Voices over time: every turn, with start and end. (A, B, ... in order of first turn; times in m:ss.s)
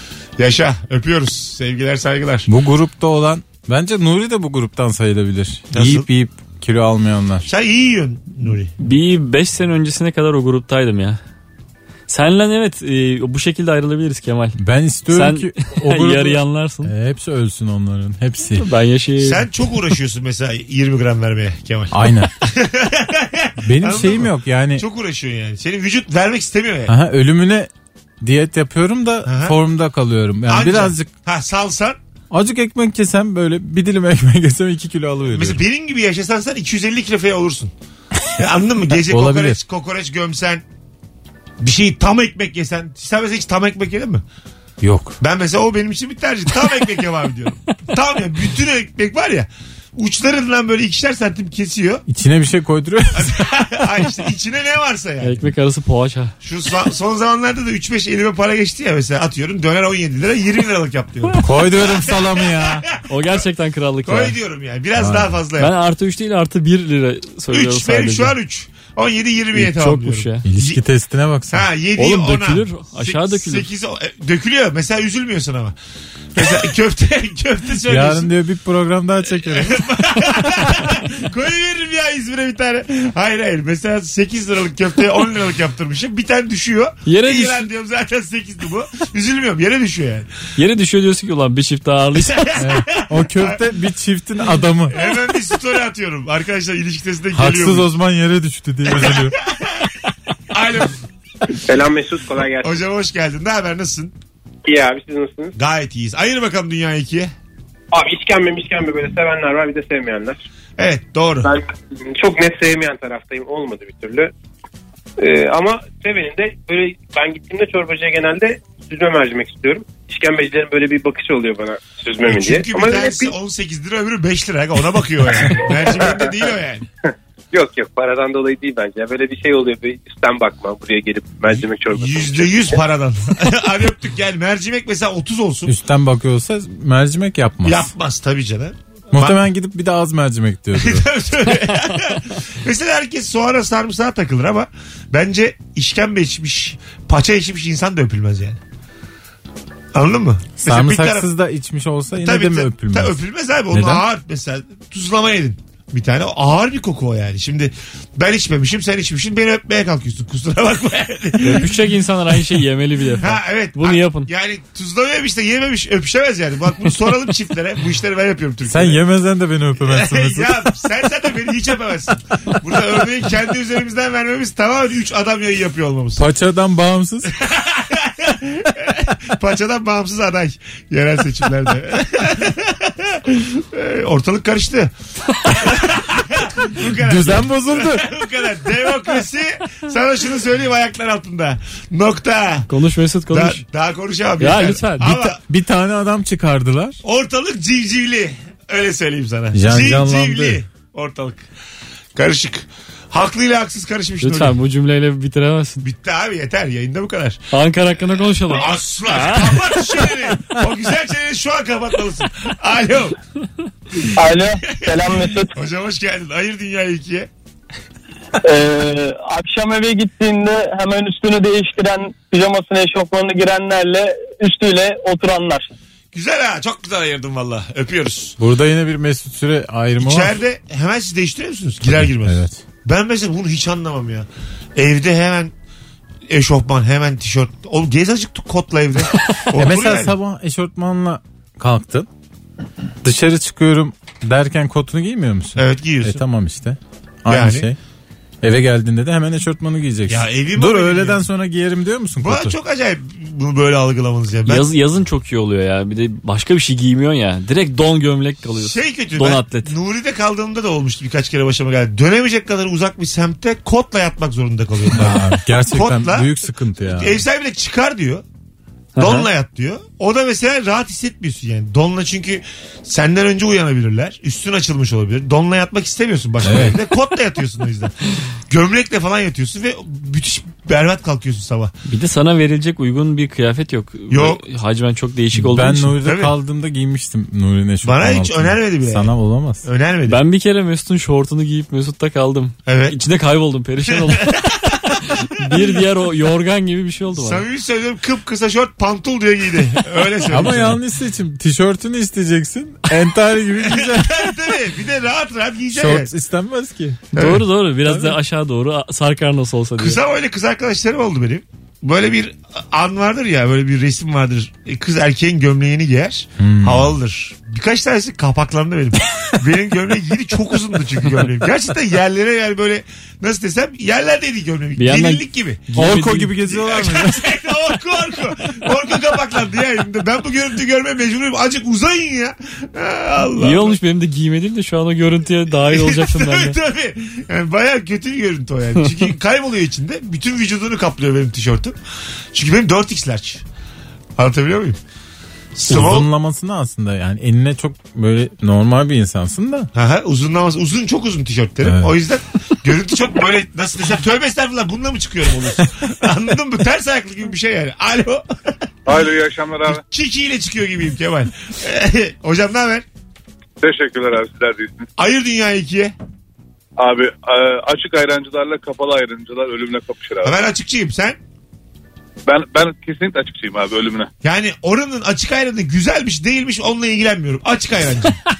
0:00.4-0:02.5 A
0:02.5-0:07.5 B
0:05.7-0:06.1 A
0:07.4-0:08.7 A
0:08.8-0:11.2 C
0:12.1-0:14.6 C
0:14.6-0:18.6 B
0:15.1-0:16.9 C
0:18.6-0:19.5 C
0:19.2-0:26.9 A
0:21.9-0:22.3 B
0:23.6-0:24.8 B
0:26.9-0:27.7 B
0:28.2-0:31.1 B
0:29.2-0:29.5 A
0:30.5-0:32.0 A
0:32.3-0:35.6 B
0:35.3-0:37.7 A
0:38.4-0:40.6 A
0:39.0-0:39.6 B
0:41.6-0:44.2 A
0:44.8-0:45.2 B
0:45.2-0:52.0 A
0:52.1-0:53.5 B
0:53.1-0:55.4 A
0:55.2-0:56.3 C
0:56.4-1:03.4 A
1:01.4-1:02.9 B
1:03.1-1:04.4 C
1:04.0-1:05.7 A
1:04.9-1:05.4 B
1:05.6-1:08.3 C
1:07.5-1:10.8 A
1:09.5-1:10.4 C
1:10.4-1:11.7 B
1:11.5-1:15.8 A
1:12.0-1:13.7 C
1:16.3-1:18.3 A
1:17.8-1:20.4 B
1:19.4-1:30.3 A
1:27.0-1:27.7 C
1:30.6-1:32.4 C
1:32.3-1:33.6 A
1:32.6-1:35.1 B
1:34.9-1:37.9 A
1:37.3-1:39.4 B
1:38.9-1:39.7 A
1:40.5-1:41.0 A
1:41.5-1:42.8 D
1:42.6-1:44.1 A
1:44.6-1:45.6 D
1:45.6-1:47.3 A
1:47.9-1:50.4 D
1:50.8-1:51.5 A
1:51.4-1:54.3 D
1:55.2-2:03.3 D
2:02.2-2:06.8 A
2:05.4-2:06.5 D
2:07.5-2:12.8 D
2:11.9-2:15.7 A
2:15.7-2:17.9 B
2:17.6-2:19.4 A
2:19.1-2:21.1 B
2:20.8-2:28.6 A
2:29.9-2:31.3 A
2:30.6-2:33.2 B
2:32.2-2:41.8 A
2:33.7-2:34.0 B
2:41.4-2:44.3 C
2:43.2-2:49.0 A
2:48.7-2:50.7 B
2:49.8-2:56.2 A
2:56.2-2:57.3 B
2:57.3-3:04.9 A
3:05.4-3:12.7 A
3:06.9-3:08.2 B
3:12.7-3:13.6 C
3:13.3-3:15.4 A
3:14.4-3:15.3 C
3:15.0-3:17.0 B
3:17.0-3:21.4 A
3:19.5-3:20.6 B
3:22.1-3:24.6 A
3:24.2-3:25.8 C
3:25.8-3:27.4 A
3:27.5-3:29.6 C
3:28.5-3:33.2 A
3:34.1-3:35.5 E
3:34.7-3:37.3 A
3:38.4-3:45.7 E
3:46.1-3:48.4 A
3:48.4-3:50.4 B
3:50.0-3:55.5 A
3:51.8-3:52.6 B
3:56.3-4:00.1 A
3:59.5-4:02.1 B
4:03.0-4:07.8 B
4:05.6-4:06.2 A
4:07.3-4:07.7 A
4:08.4-4:12.6 B
4:10.1-4:11.2 A
4:12.2-4:14.7 A
4:14.4-4:19.7 C
4:18.6-4:26.4 A
4:24.9-4:27.2 B
4:26.9-4:28.2 A
4:29.0-4:29.3 C
4:29.0-4:37.9 A
4:36.4-4:36.8 B
4:38.5-4:41.7 A
4:41.8-4:46.0 C
4:44.1-4:44.4 A
4:45.3-4:49.6 B
4:46.0-4:46.3 A
4:47.8-4:49.1 A
4:49.6-4:50.2 A
4:50.1-4:57.4 C
4:52.6-4:53.0 A
4:53.9-4:55.7 A
4:57.1-5:00.8 A
5:00.3-5:04.4 B
5:03.6-5:06.1 A
5:05.7-5:07.3 B
5:07.1-5:10.0 C
5:07.2-5:07.4 A
5:07.8-5:08.2 B
5:09.8-5:25.6 A
5:16.4-5:16.9 B
5:24.8-5:26.3 C
5:25.7-5:27.4 B
5:26.4-5:33.8 A
5:33.4-5:36.6 C
5:35.6-5:41.8 A
5:42.3-5:43.4 A
5:44.2-5:44.8 A
5:45.5-5:46.1 A
5:45.7-5:49.7 B
5:49.7-5:58.2 A
5:51.6-5:51.9 B
5:58.8-5:59.8 F
5:59.7-6:02.8 A
6:03.6-6:04.9 F
6:05.0-6:05.9 A
6:06.8-6:10.4 F
6:10.2-6:11.2 A
6:12.3-6:14.1 F
6:14.2-6:18.2 A